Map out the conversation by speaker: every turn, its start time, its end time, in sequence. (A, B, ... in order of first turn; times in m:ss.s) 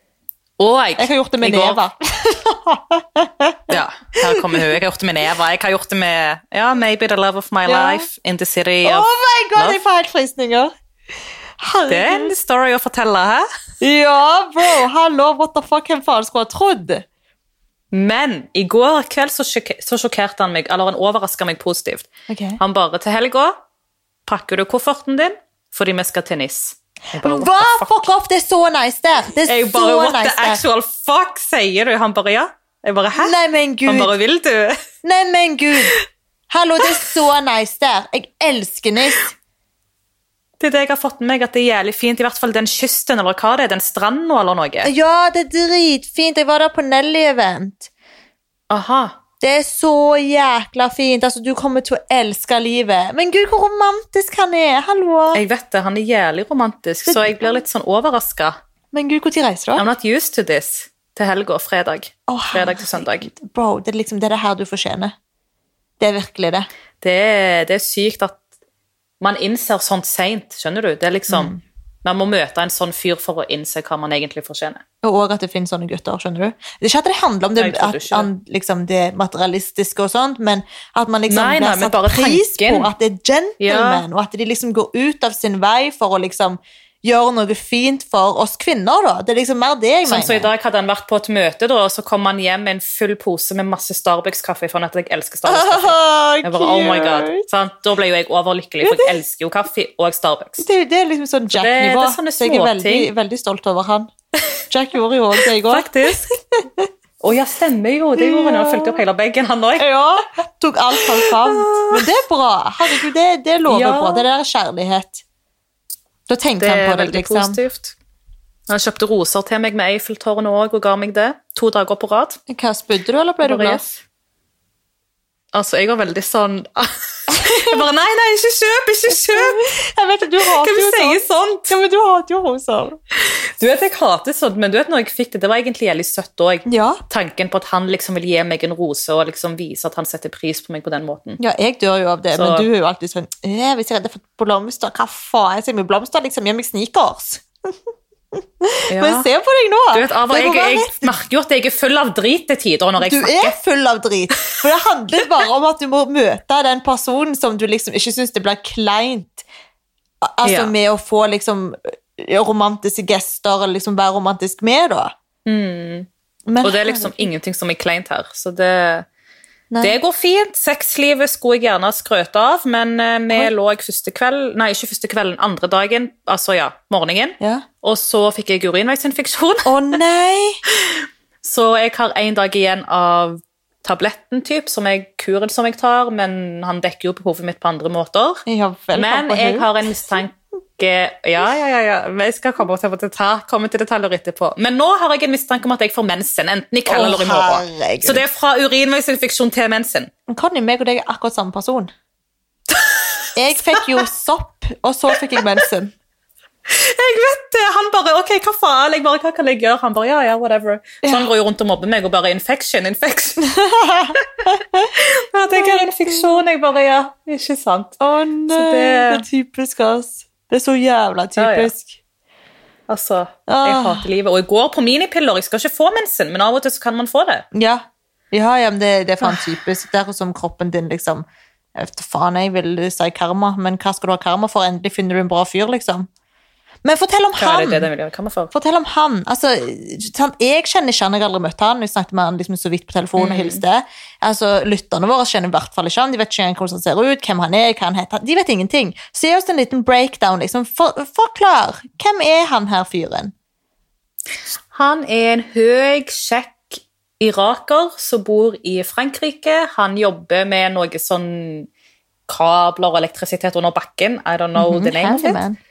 0:00.6-0:01.8 A
0:01.0-0:04.8 B
0:03.7-0:09.8 A
0:07.7-0:08.1 B
0:08.8-0:10.7 B
0:11.6-0:12.3 B
0:11.9-0:13.5 A
0:13.8-0:17.0 B
0:17.9-0:23.6 A
0:22.3-0:22.6 B
0:24.3-0:28.1 A
0:27.2-0:30.6 B
0:29.5-0:33.3 A
0:33.2-0:34.1 B
0:33.9-0:34.8 A
0:35.0-0:35.9 B
0:36.5-0:39.3 B
0:40.6-0:44.9 A
0:44.8-0:47.9 B
0:48.7-0:49.2 A
0:49.4-0:55.4 B
0:55.3-0:58.6 A
0:57.1-0:57.6 B
0:58.9-0:59.9 B
0:59.8-1:03.3 A
1:02.3-1:05.1 B
1:06.0-1:06.7 B
1:07.0-1:08.4 A
1:09.2-1:11.5 A
1:11.3-1:11.6 B
1:12.0-1:14.8 A
1:15.0-1:30.5 B
1:17.6-1:18.3 A
1:21.3-1:22.9 A
1:23.6-1:24.0 A
1:30.1-1:40.6 A
1:35.5-1:37.4 B
1:38.8-1:39.1 B
1:40.6-1:44.1 B
1:41.5-1:43.1 A
1:44.7-1:46.9 B
1:45.6-1:46.2 A
1:47.2-1:49.9 A
1:48.2-1:49.0 B
1:49.8-1:55.2 B
1:51.0-1:52.0 A
1:53.7-1:54.3 A
1:56.3-1:57.6 B
1:56.6-1:58.0 A
1:58.7-2:02.4 A
2:02.5-2:03.8 B
2:03.4-2:04.0 A
2:05.5-2:09.6 A
2:07.3-2:07.8 B
2:09.1-2:13.0 B
2:10.5-2:11.7 A
2:13.2-2:21.4 A
2:16.7-2:17.0 B
2:21.4-2:27.7 B
2:22.3-2:22.7 A
2:28.3-2:31.1 B
2:28.9-2:29.3 A
2:29.9-2:33.5 A
2:33.0-2:39.4 B
2:40.2-2:45.1 B
2:40.4-2:40.7 A
2:45.5-2:46.1 A
2:46.5-2:47.3 B
2:46.6-2:49.1 A
2:49.7-2:50.0 B
2:49.8-2:59.7 A
2:57.4-2:57.6 B
2:59.6-3:00.6 B
3:01.4-3:20.1 A
3:08.5-3:09.8 B
3:16.9-3:18.2 B
3:20.3-3:21.9 B
3:22.7-3:24.0 A
3:23.4-3:25.9 B
3:26.7-3:33.5 A
3:31.0-3:31.3 B
3:33.5-3:34.9 B
3:35.0-3:38.0 A
3:35.5-3:36.4 B
3:38.0-3:42.0 B
3:38.5-3:39.2 A
3:41.4-3:41.7 A
3:42.9-3:47.4 A
3:43.5-3:44.1 B
3:47.5-3:56.1 B
3:56.8-3:57.9 B
3:57.4-3:58.5 A
3:58.5-4:13.3 B
4:03.2-4:03.6 A
4:14.7-4:21.7 A
4:22.3-4:25.4 A
4:24.6-4:25.6 B